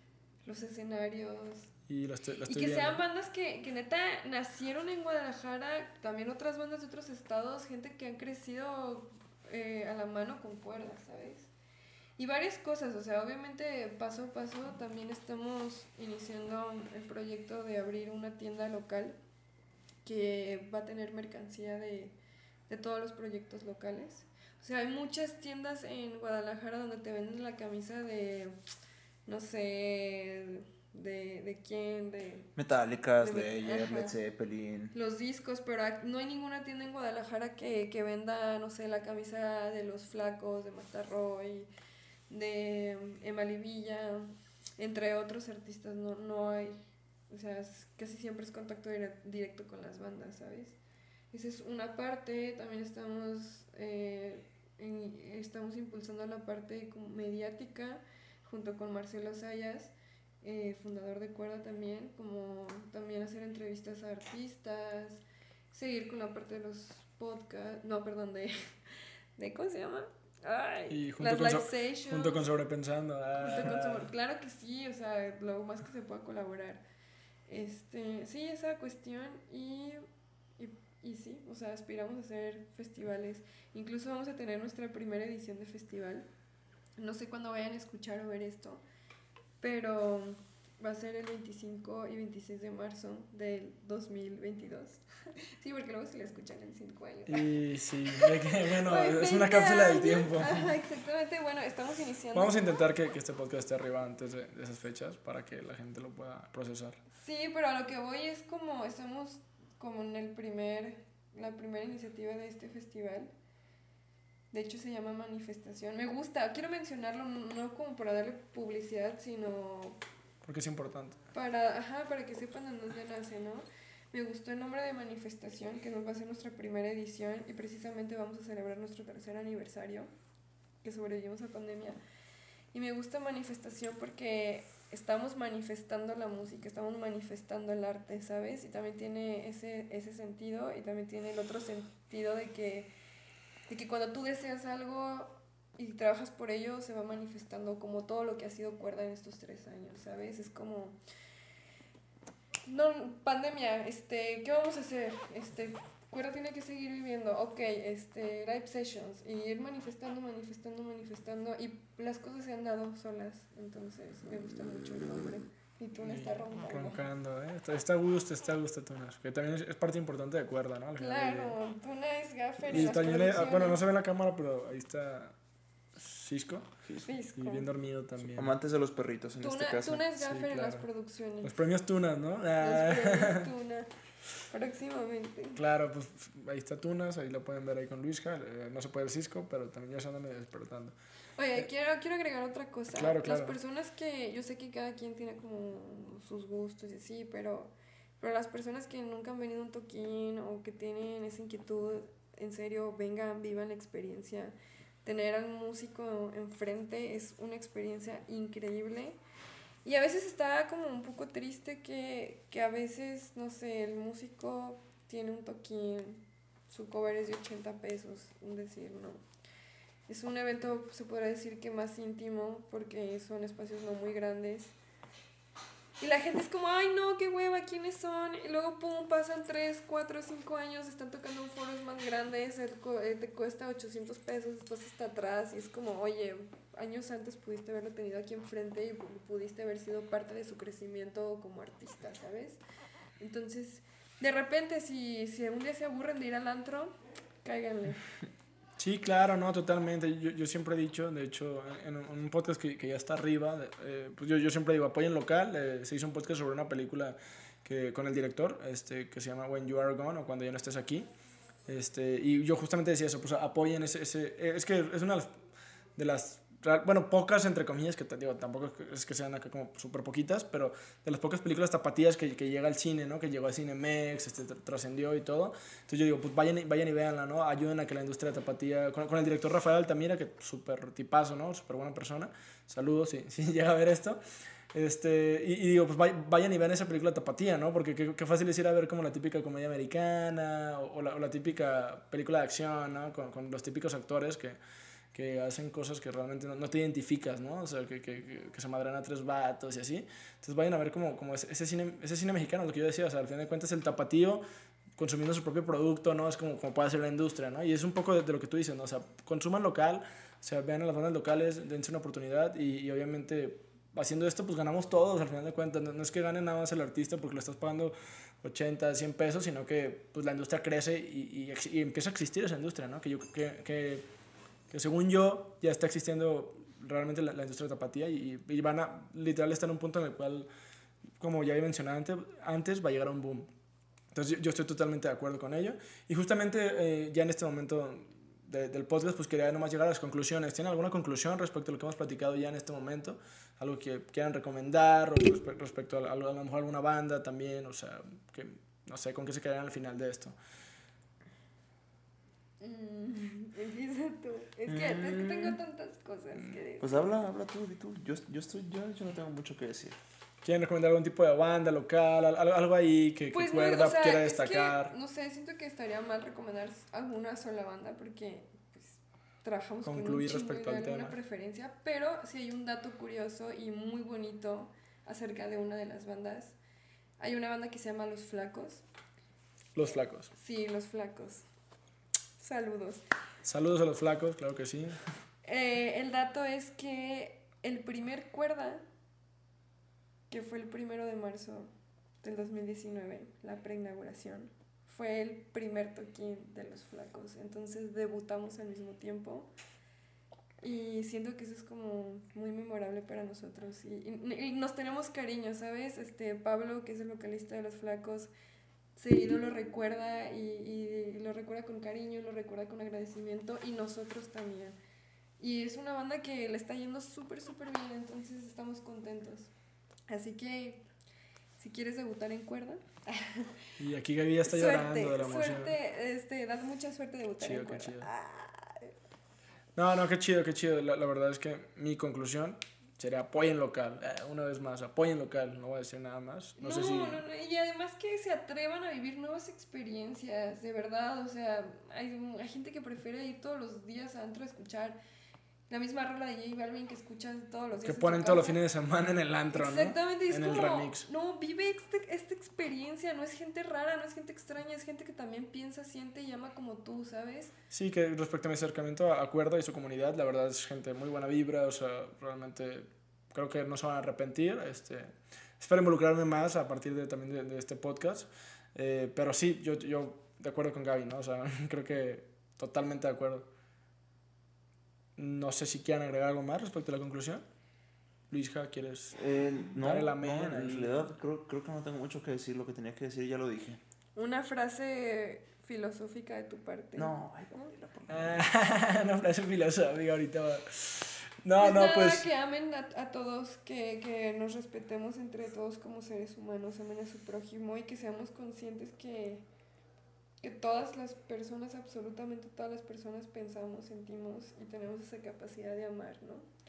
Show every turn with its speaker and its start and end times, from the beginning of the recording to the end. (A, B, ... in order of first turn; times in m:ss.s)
0:00.4-0:01.7 A
0:01.9-0:03.0 B
0:02.5-0:11.5 A
0:12.2-0:19.2 A
0:20.0-0:22.2 A
0:22.7-0:28.6 A
0:29.3-0:32.5 A
0:32.6-0:35.0 C
0:33.2-0:34.2 A
0:34.9-0:41.7 A
0:42.3-0:50.8 A
0:51.3-1:08.6 A
1:09.4-1:12.4 A
1:10.9-1:14.1 B
1:13.4-1:16.8 A
1:17.5-1:20.0 A
1:20.6-1:26.3 A
1:27.0-1:28.8 A
1:29.6-1:37.5 A
1:37.3-1:40.7 B
1:38.1-1:42.6 A
1:42.3-1:47.0 B
1:47.1-1:53.3 A
1:54.5-2:00.0 A
2:00.4-2:01.2 B
2:01.3-2:10.1 A
2:10.8-2:12.0 A
2:12.7-2:22.9 A
2:23.7-2:31.0 A
2:32.7-2:47.0 A
2:46.0-2:51.6 B
2:51.0-2:53.8 A
2:52.7-2:55.4 B
2:56.0-2:58.5 B
2:57.0-2:57.7 A
2:58.3-3:00.1 C
2:59.4-3:01.6 A
3:00.2-3:00.8 B
3:01.4-3:03.5 B
3:02.6-3:03.9 A
3:04.5-3:05.6 A
3:05.6-3:11.0 B
3:11.4-3:29.2 A
3:12.9-3:13.6 B
3:29.8-3:39.2 A
3:40.1-3:44.7 A
3:46.0-4:02.6 A
4:03.2-4:08.1 A
4:08.8-4:21.1 B
4:21.7-4:25.3 B
4:26.0-4:44.2 B
4:44.7-4:54.6 B
4:55.1-5:04.4 B
5:05.0-5:24.0 B
5:24.7-5:30.5 B
5:31.2-5:33.5 B
5:34.1-5:50.4 B
5:52.6-5:57.1 A
5:54.7-5:55.6 C
5:56.8-6:00.0 C
6:00.4-6:04.9 B
6:03.3-6:16.6 A
6:09.8-6:11.2 B
6:17.2-6:18.8 A
6:19.8-6:20.3 B
6:20.3-6:21.4 A
6:22.4-6:23.0 A
6:23.4-6:25.0 B
6:25.4-6:28.8 A
6:30.3-6:31.7 A
6:32.2-6:39.5 A
6:40.6-6:48.3 A
6:49.0-6:54.8 A
6:55.4-6:59.5 A
7:00.1-7:00.8 A
7:01.6-7:03.7 A
7:03.8-7:05.7 B
7:04.4-7:08.9 A
7:07.4-7:08.1 B
7:09.8-7:17.2 B
7:16.6-7:25.0 A
7:25.7-7:28.6 A
7:27.8-7:31.1 B
7:29.5-7:37.5 A
7:37.7-7:53.5 B
7:55.2-7:57.4 B
7:58.3-7:59.2 B
7:59.2-8:03.8 C
7:59.8-8:01.1 B
8:04.2-8:07.7 A
8:07.0-8:08.4 C
8:08.1-8:12.3 B
8:11.6-8:19.4 A
8:20.4-8:26.5 A